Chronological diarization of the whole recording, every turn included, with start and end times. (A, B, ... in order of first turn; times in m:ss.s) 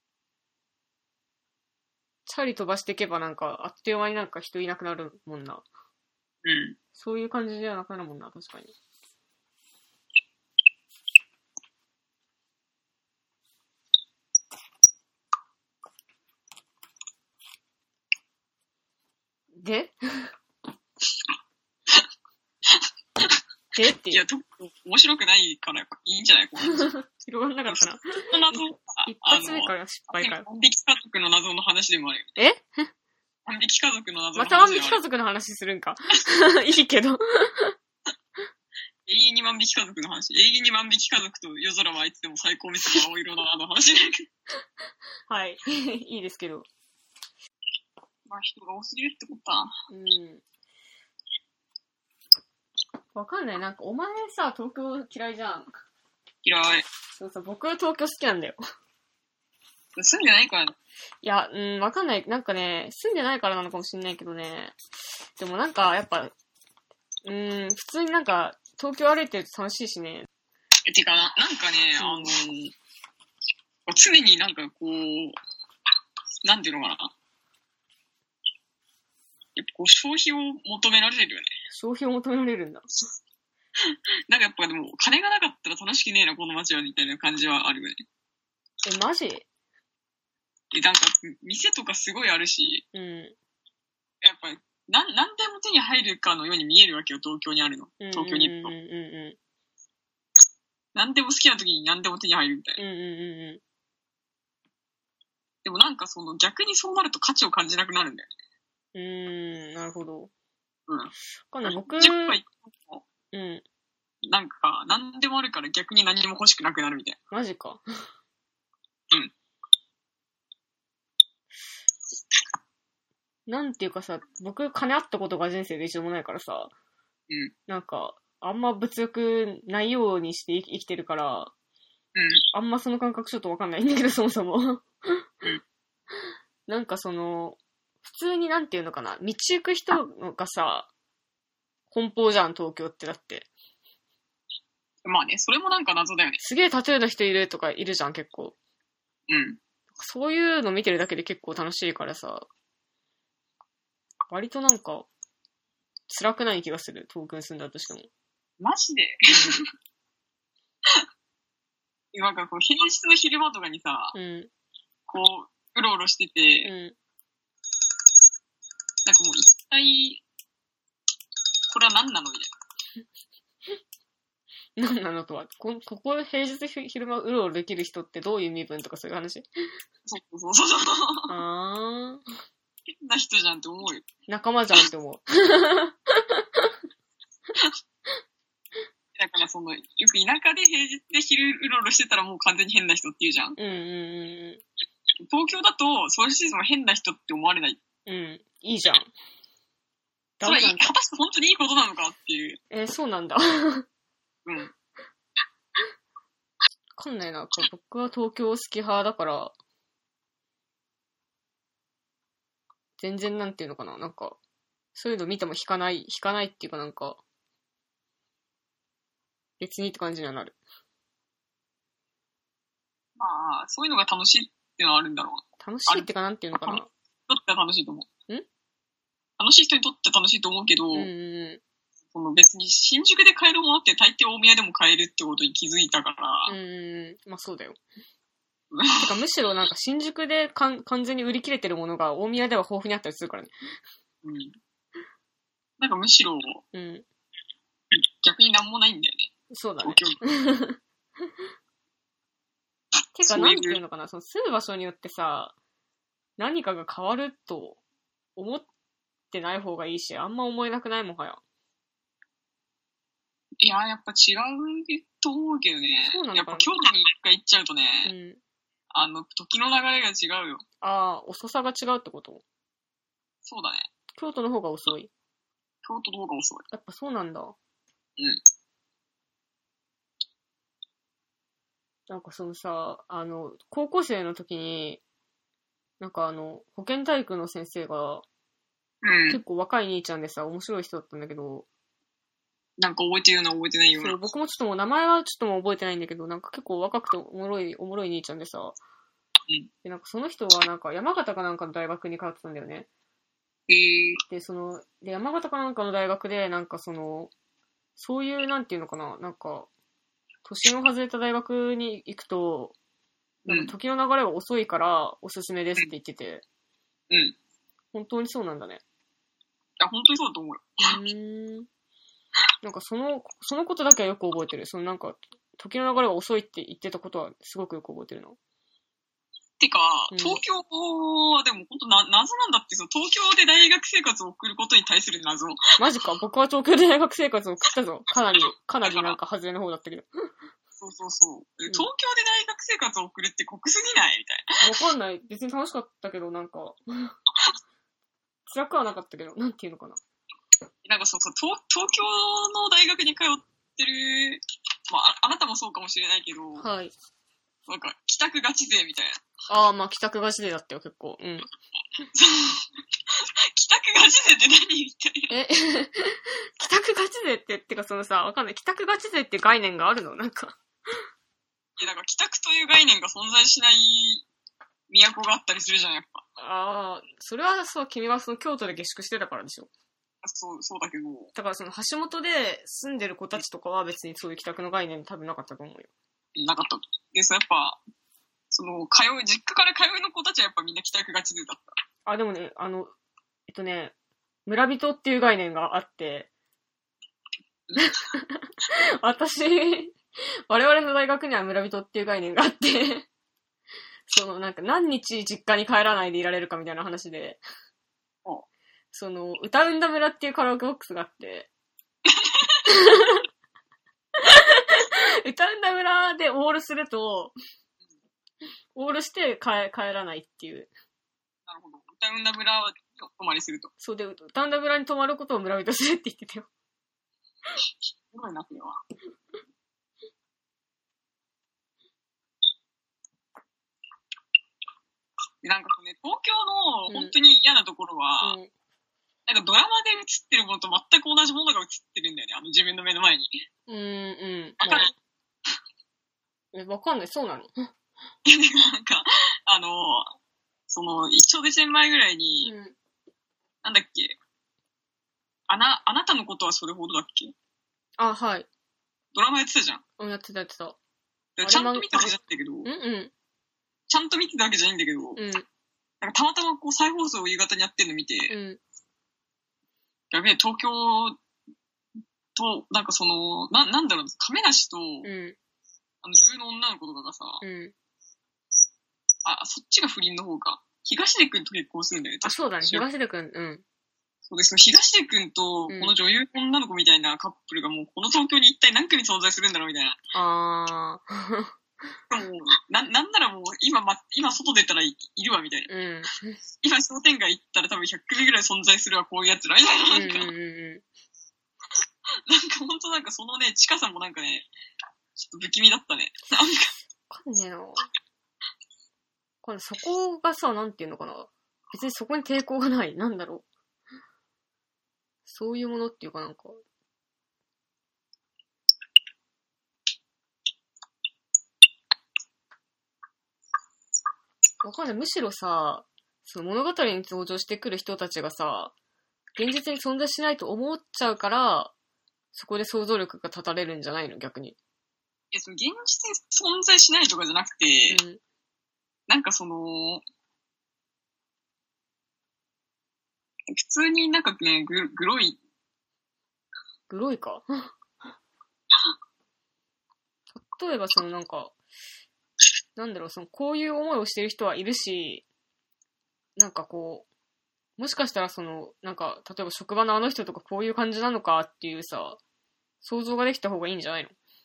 0:02.2-0:05.6 A
0:06.4-0:06.8 B
0:06.9-0:08.7 A
0:19.6-0:19.9 A
0:22.7-0:23.4 B
0:23.7-0:24.2 A
0:24.1-0:26.9 B
0:26.7-0:30.4 A
0:27.7-0:32.3 B
0:32.4-0:32.9 A
0:33.4-0:35.0 B
0:34.4-0:37.7 A
0:39.0-0:44.3 B
0:45.3-0:46.7 A
0:48.2-0:49.7 B
0:49.9-0:50.4 A
0:53.1-0:55.8 A
0:56.4-0:56.8 B
0:57.2-0:58.6 A
1:00.0-1:00.7 B
1:01.2-1:04.7 A
1:05.4-1:06.3 A
1:07.2-1:10.3 A
1:10.8-1:12.7 B
1:12.0-1:12.3 A
1:13.8-1:15.4 B
1:16.4-1:17.1 B
1:19.6-1:21.5 B
1:21.7-1:22.8 A
1:23.8-1:28.0 B
1:28.8-1:29.4 A
1:30.7-1:32.8 B
1:32.9-1:33.3 A
1:34.2-1:38.7 B
1:38.0-1:39.4 A
1:40.9-1:42.8 B
1:42.8-1:43.6 A
1:45.6-1:48.3 B
1:48.9-1:50.3 A
1:51.5-1:52.4 A
1:51.6-1:53.0 B
1:53.3-1:53.6 A
1:54.2-1:57.2 B
1:57.3-1:57.8 A
2:03.5-2:06.7 A
2:07.7-2:11.5 A
2:12.1-2:12.4 B
2:12.5-2:15.2 A
2:16.7-2:20.9 A
2:21.9-2:23.5 A
2:25.0-2:26.4 B
2:26.4-2:28.6 A
2:29.3-2:29.6 B
2:30.0-2:32.5 A
2:34.3-2:35.1 A
2:36.1-2:38.1 A
2:38.6-2:39.6 B
2:39.3-2:39.6 A
2:42.1-2:44.1 B
2:44.1-2:44.5 A
2:45.1-2:46.7 B
2:46.6-2:46.9 A
2:49.0-2:50.2 B
2:51.7-2:52.5 B
2:54.8-2:59.4 A
3:00.0-3:01.4 B
3:01.3-3:02.2 A
3:02.9-3:04.1 B
3:04.3-3:06.7 A
3:09.1-3:13.6 B
3:13.6-3:14.6 A
3:15.2-3:17.8 B
3:18.0-3:19.1 A
3:20.4-3:20.9 A
3:20.4-3:22.6 B
3:22.7-3:23.8 A
3:24.4-3:24.7 B
3:27.0-3:29.5 A
3:33.0-3:34.4 A
3:34.9-3:37.2 A
3:39.6-3:40.6 A
3:43.2-3:48.1 B
3:45.6-3:46.9 A
3:49.4-3:51.1 B
3:50.9-3:51.6 A
3:52.1-3:56.5 B
3:56.5-3:57.8 A
3:58.7-3:59.0 B
3:59.0-4:03.5 A
4:04.2-4:04.6 B
4:05.8-4:06.6 B
4:06.7-4:07.0 A
4:07.9-4:09.3 B
4:09.5-4:10.8 A
4:09.8-4:10.2 B
4:13.1-4:15.5 A
4:13.2-4:13.8 B
4:16.4-4:17.8 A
4:18.4-4:18.7 A
4:19.3-4:21.4 A
4:23.6-4:28.1 B
4:26.0-4:26.7 A
4:28.0-4:28.4 A
4:28.9-4:30.6 B
4:30.8-4:32.4 A
4:33.4-4:33.9 B
4:34.1-4:35.1 A
4:35.8-4:36.6 B
4:36.7-4:37.6 A
4:42.1-4:45.0 A
4:46.0-4:48.2 A
4:49.0-4:49.4 B
4:49.3-4:51.6 A
4:52.8-4:54.2 B
4:54.0-4:58.8 A
4:59.8-5:02.9 A
5:03.7-5:04.2 B
5:04.3-5:07.3 A
5:08.0-5:09.7 A
5:10.4-5:12.7 A
5:13.4-5:16.4 A
5:13.5-5:13.7 B
5:17.1-5:17.4 B
5:17.9-5:18.8 A
5:19.8-5:21.0 B
5:20.8-5:21.7 A
5:22.6-5:28.4 A
5:29.6-5:35.6 B
5:30.1-5:30.4 A
5:35.8-5:40.1 A
5:38.8-5:39.2 B
5:40.8-5:44.6 B
5:44.6-5:47.1 A
5:48.5-5:50.0 A
5:50.8-5:56.6 B
5:56.6-5:56.9 A
5:57.6-5:59.2 B
5:59.5-6:01.5 A
6:02.1-6:05.3 B
6:05.3-6:10.6 A
6:11.8-6:14.2 B
6:14.9-6:16.2 B
6:16.4-6:19.7 A
6:20.2-6:21.3 B
6:21.3-6:25.9 A
6:26.4-6:27.8 B
6:28.5-6:31.8 B
6:32.0-6:32.9 A
6:33.5-6:33.9 A
6:34.4-6:36.3 A
6:37.8-6:40.0 A
6:40.5-6:43.1 A
6:44.1-6:47.4 A
6:48.9-6:51.5 A
6:52.0-6:52.6 B
6:52.7-6:53.2 A
6:54.2-6:57.3 A
6:58.7-7:00.7 A
7:01.5-7:03.7 B
7:03.8-7:06.5 A
7:08.1-7:08.8 B
7:15.4-7:18.4 B
7:16.9-7:17.2 A
7:18.2-7:18.5 A
7:19.2-7:23.3 B
7:23.7-7:24.9 A
7:24.6-7:24.9 B
7:26.5-7:27.7 A
7:28.2-7:30.1 B
7:30.7-7:32.5 B
7:32.4-7:32.8 A
7:33.6-7:34.2 B
7:35.5-7:37.3 B
7:38.0-7:38.5 A
7:39.1-7:39.8 B
7:40.0-7:40.8 A
7:41.4-7:42.7 B
7:41.4-7:43.1 A
7:43.9-7:45.2 B
7:45.2-7:45.4 A
7:46.0-7:48.3 B
7:48.3-7:48.6 A
7:50.1-7:51.2 B
7:52.3-7:55.1 B
7:55.0-7:55.4 A
7:56.0-7:57.4 B
7:57.4-7:57.7 A
7:59.2-8:02.8 B
8:02.2-8:03.6 A
8:04.3-8:10.0 B
8:05.7-8:05.9 A
8:10.1-8:11.5 A
8:12.1-8:15.7 B
8:15.7-8:16.4 A
8:16.6-8:20.3 B
8:19.9-8:20.8 A
8:22.3-8:24.5 B
8:25.2-8:26.7 B
8:27.1-8:27.8 A
8:29.4-8:33.4 A
8:35.2-8:36.6 A
8:44.6-8:48.7 A
8:49.4-8:51.7 A
8:52.3-8:54.6 A
8:55.3-8:58.0 B
8:57.9-8:58.2 A
8:59.1-9:00.0 B
9:03.5-9:05.4 B
9:06.9-9:07.7 A
9:10.4-9:11.5 A
9:12.8-9:15.2 A
9:16.4-9:17.1 A
9:17.8-9:22.2 A
9:22.8-9:24.1 A